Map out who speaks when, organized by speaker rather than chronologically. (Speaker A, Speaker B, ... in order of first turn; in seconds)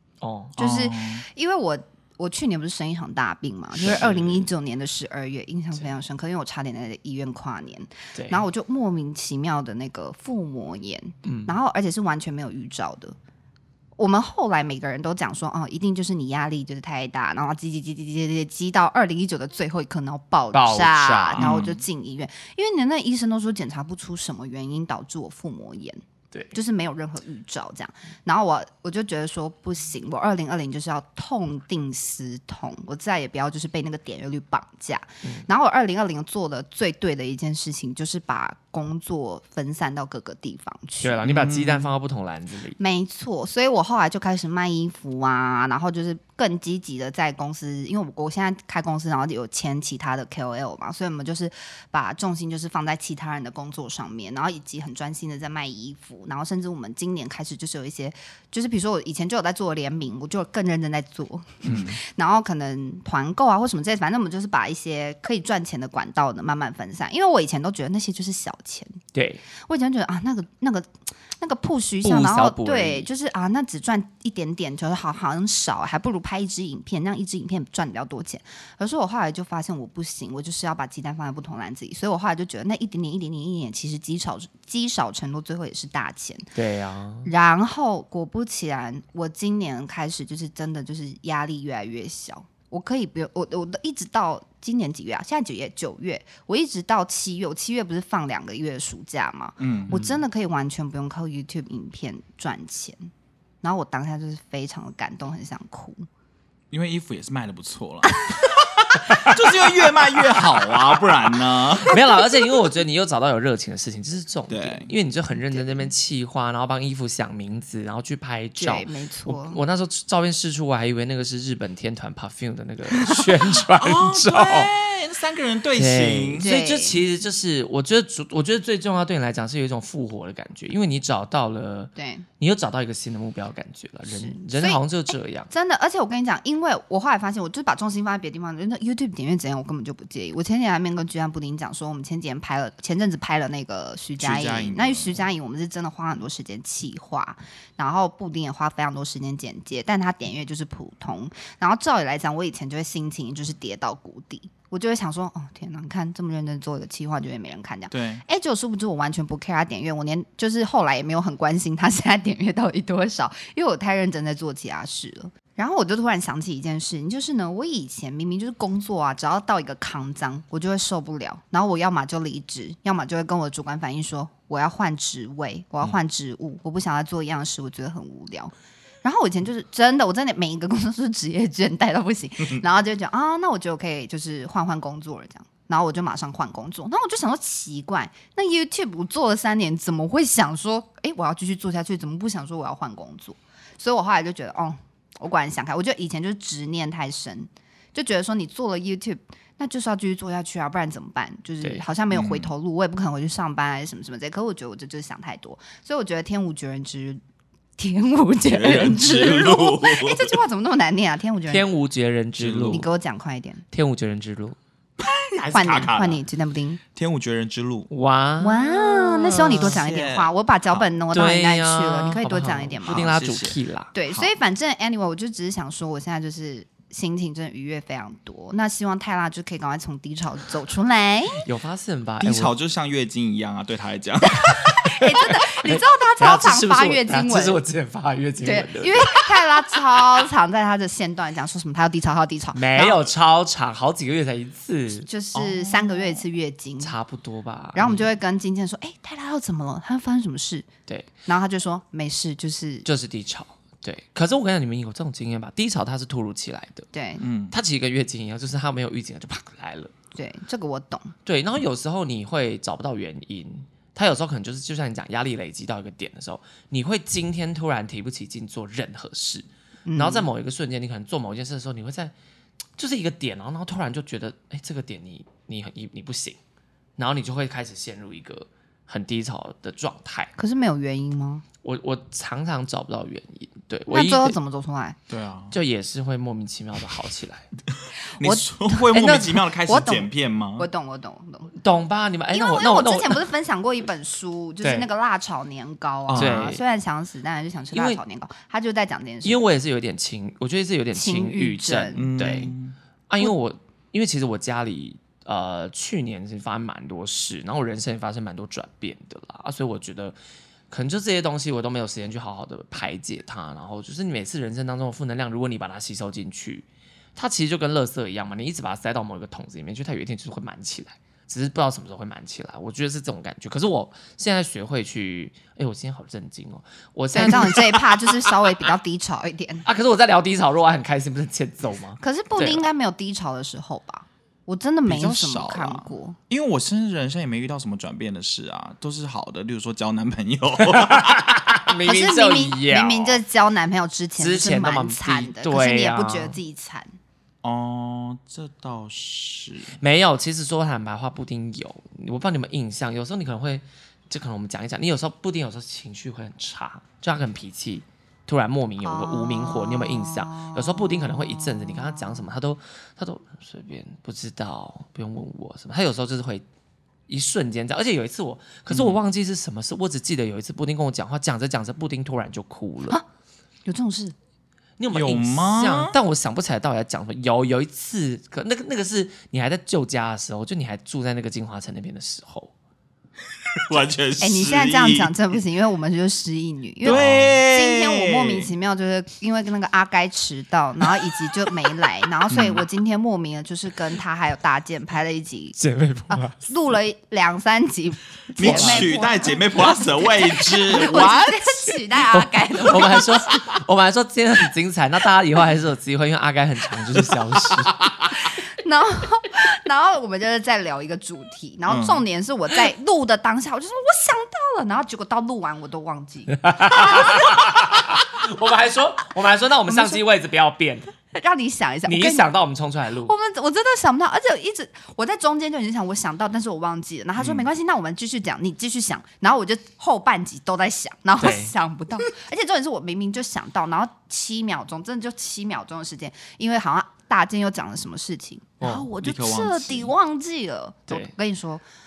Speaker A: 0.2-0.6, 3.8-4.5, 8.2-8.4, 11.2-11.6, 20.5-21.5, 41.0-42.8, 69.1-69.4, 72.0-73.1, 86.5-87.3, 109.1-109.4, 111.8-124.7, 125.8-135.5, 211.5-212.9, 213.7-214.6, 217.9-219.8, 221.1-223.9, 231.4-232.5, 234.8-239.1, 242.5-245.1, 246.8-248.1, 252.8-256.9, 257.5-259.9, 261.2-272.1, 272.8-276.4, 277.0-280.3, 281.6-284.4, 285.5-287.5, 289.0-289.2, 291.6-293.2, 294.6-294.9, 296.1-296.6, 297.7-298.0, 299.2-302.5, 303.1-310.2, 310.7-327.9, 329.6-332.7, 340.6-343.2, 344.2-346.4, 349.8-366.4, 367.1-373.0, 374.8-382.5, 386.9-387.4, 395.6-396.5, 398.4-398.9, 402.1-407.9, 416.4-420.9, 421.9-423.1, 431.2-431.5, 438.6-438.9
Speaker B: 0.6-13.2, 14.0-26.0, 26.5-41.2, 42.8-69.0, 69.6-86.5, 87.2-103.1, 103.6-106.0, 115.3-115.9, 118.6-119.6, 123.0-123.3, 126.4-127.0, 132.0-132.3, 134.1-207.2, 207.8-211.7, 212.7-213.6, 215.5-216.8, 218.4-223.2, 223.9-231.4, 234.4-237.6, 238.4-243.0, 245.1-246.9, 247.8-250.7, 251.3-252.9, 256.9-257.2, 260.1-261.1, 269.9-270.3, 280.4-281.4, 283.9-285.0, 288.2-291.5, 292.3-299.4, 300.9-302.4, 327.1-329.6, 332.0-336.2, 341.9-346.9, 358.8-362.2, 373.6-374.1, 384.2-395.6, 396.1-403.3, 408.2-417.9, 419.7-420.0, 421.1-422.3, 423.1-441.6
Speaker C: 0.6-1.2, 21.4-21.8, 41.3-41.9, 61.6-62.0, 99.6-100.0, 106.7-112.0, 114.5-114.9, 123.8-126.5, 144.2-145.2, 157.9-158.2, 202.1-202.5, 208.4-210.4, 212.4-212.9, 215.0-216.2, 216.9-217.9, 219.5-220.8, 222.9-223.6, 232.2-234.6, 245.3-245.8, 257.2-257.6, 285.1-285.5, 288.2-290.7, 296.1-296.5, 302.0-302.8, 334.9-341.3, 347.4-349.8, 368.7-369.0, 374.9-376.0, 383.6-385.2, 386.8-388.5, 392.3-392.6, 398.4-401.6, 411.7-412.0, 427.2-427.5, 439.0-439.9